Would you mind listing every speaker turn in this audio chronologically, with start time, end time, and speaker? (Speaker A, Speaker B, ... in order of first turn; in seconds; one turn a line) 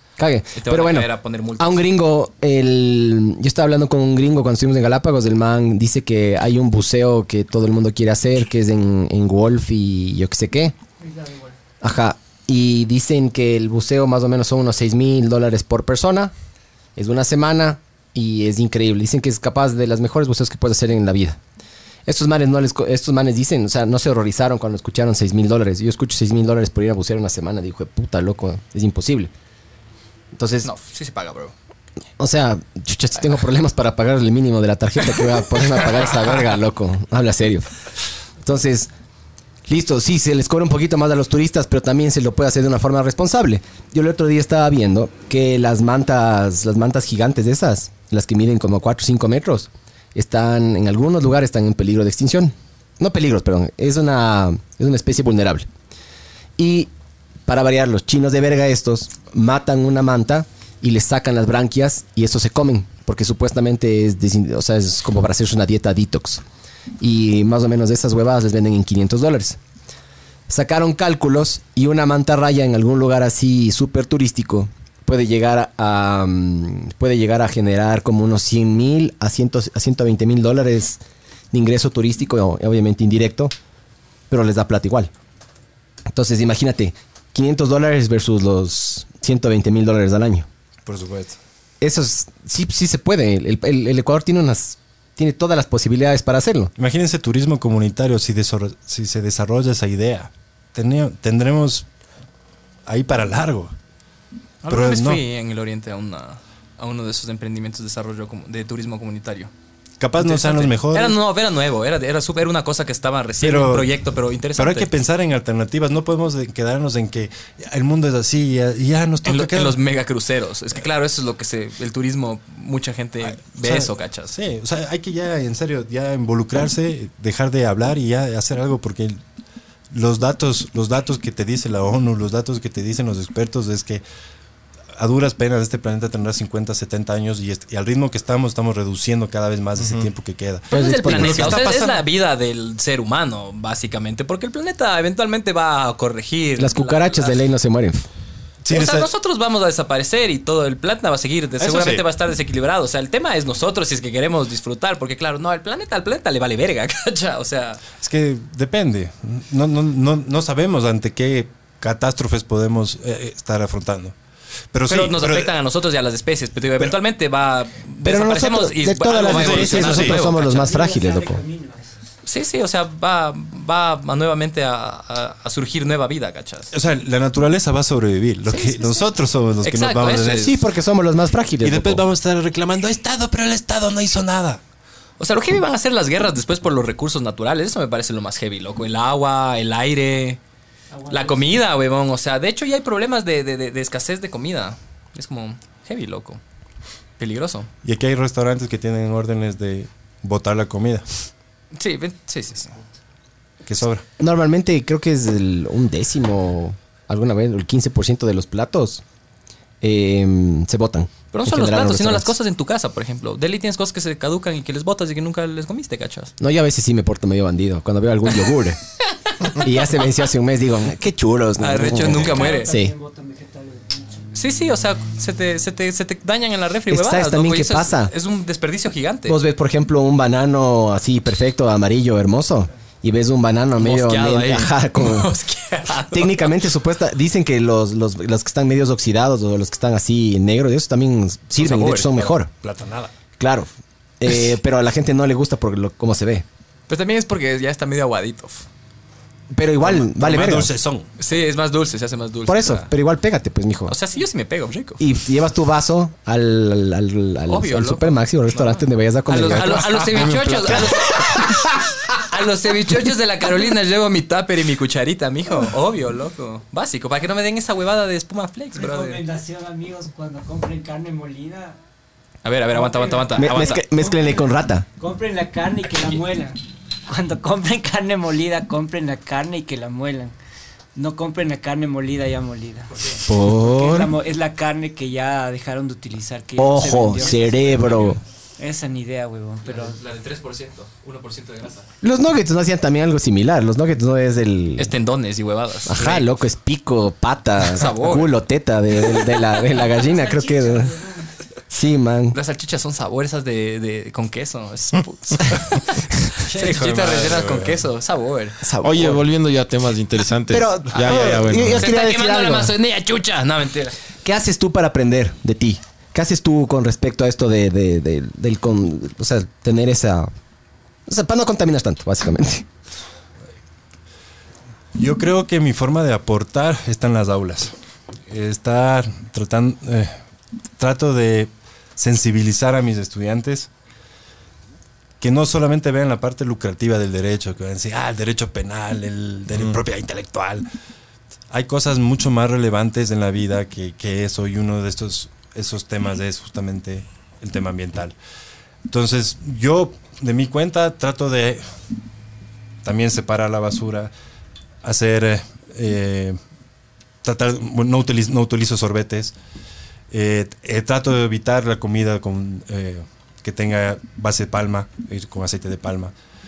Speaker A: 0.2-10.7
Speaker B: 0.6-1.9
Speaker C: 11.0-11.5
Speaker A: 11.8-16.3
Speaker A: 16.9-21.4
Speaker A: 22.1-29.3
Speaker A: 30.3-30.7
Speaker B: 30.6-31.5
Speaker A: 32.2-37.7
Speaker A: 38.4-38.9
Speaker A: 39.7-55.7
Speaker A: 56.6-56.9
Speaker A: 57.5-66.4
Speaker A: 67.0-69.6
Speaker A: 70.5-81.0
Speaker A: 81.5-83.5
Speaker A: 84.3-85.1
Speaker A: 86.1-90.5
Speaker D: 90.8-91.4
Speaker A: 91.8-96.7
Speaker D: 96.8-101.9
Speaker D: 102.9-103.7
Speaker B: 104.6-109.5
Speaker D: 104.7-105.2
Speaker D: 110.0-111.2
Speaker B: 110.2-114.9
Speaker D: 113.4-113.9
Speaker D: 114.5-119.8
Speaker B: 119.2-124.3
Speaker D: 123.5-129.2
Speaker D: 129.9-134.0
Speaker D: 134.9-142.0
Speaker E: 139.8-140.0
Speaker A: 140.7-141.6
Speaker B: 140.7-147.4
Speaker A: 146.6-148.0
Speaker D: 148.6-149.1
Speaker B: 148.7-157.8
Speaker D: 151.6-152.0
Speaker D: 158.0-164.1
Speaker D: 164.7-165.5
Speaker B: 164.9-170.7
Speaker A: 168.0-171.4
Speaker D: 169.1-170.2
Speaker C: 170.3-172.0
Speaker B: 172.2-176.7
Speaker D: 176.7-180.5
Speaker B: 178.5-179.1
Speaker B: 179.6-180.6
Speaker A: 180.3-182.0
Speaker D: 181.6-184.6
Speaker B: 185.2-190.4
Speaker C: 190.9-191.6
Speaker B: 191.1-196.4
Speaker B: 197.2-197.7
Speaker D: 197.8-201.1
Speaker B: 201.7-202.8
Speaker D: 203.7-204.0
Speaker A: 204.2-209.0
Speaker A: 209.8-212.3
Speaker B: 211.3-216.3
Speaker A: 216.4-218.8
Speaker A: 219.5-222.9
Speaker B: 221.6-222.7
Speaker C: 222.1-224.3
Speaker B: 224.3-229.4
Speaker A: 226.9-228.1
Speaker A: 229.3-235.3
Speaker B: 233.8-236.5
Speaker A: 236.1-242.5
Speaker B: 241.6-242.2
Speaker D: 242.0-243.1
Speaker A: 243.4-246.4
Speaker B: 246.9-248.7
Speaker A: 249.5-250.7
Speaker D: 249.8-251.1
Speaker B: 251.2-252.9
Speaker A: 252.5-253.9
Speaker B: 253.9-255.0
Speaker A: 255.0-261.9
Speaker B: 257.5-269.2
Speaker E: 260.1-260.9
Speaker C: 268.7-271.8
Speaker B: 272.4-273.8
Speaker C: 272.7-280.3
Speaker A: 273.3-274.9
Speaker C: 280.9-290.0
Speaker A: 283.3-284.1
Speaker A: 286.6-288.2
Speaker B: 289.6-291.9
Speaker A: 292.0-294.9
Speaker B: 294.8-296.3
Speaker A: 295.9-300.9
Speaker B: 297.7-298.3
Speaker C: 299.8-301.3
Speaker A: 301.7-302.4
Speaker B: 302.3-308.6
Speaker D: 306.4-307.8
Speaker A: 308.6-309.2
Speaker E: 308.8-311.9
Speaker A: 310.5-312.7
Speaker B: 311.2-313.9
Speaker A: 314.2-320.3
Speaker A: 321.1-322.7
Speaker D: 324.9-327.7
Speaker D: 328.3-330.2
Speaker D: 330.8-333.7
Speaker D: 335.2-340.6
Speaker D: 341.5-348.1
Speaker D: 348.9-351.6
Speaker D: 352.8-354.1
Speaker D: 354.8-356.4
Speaker D: 357.2-359.3
Speaker D: 360.1-366.1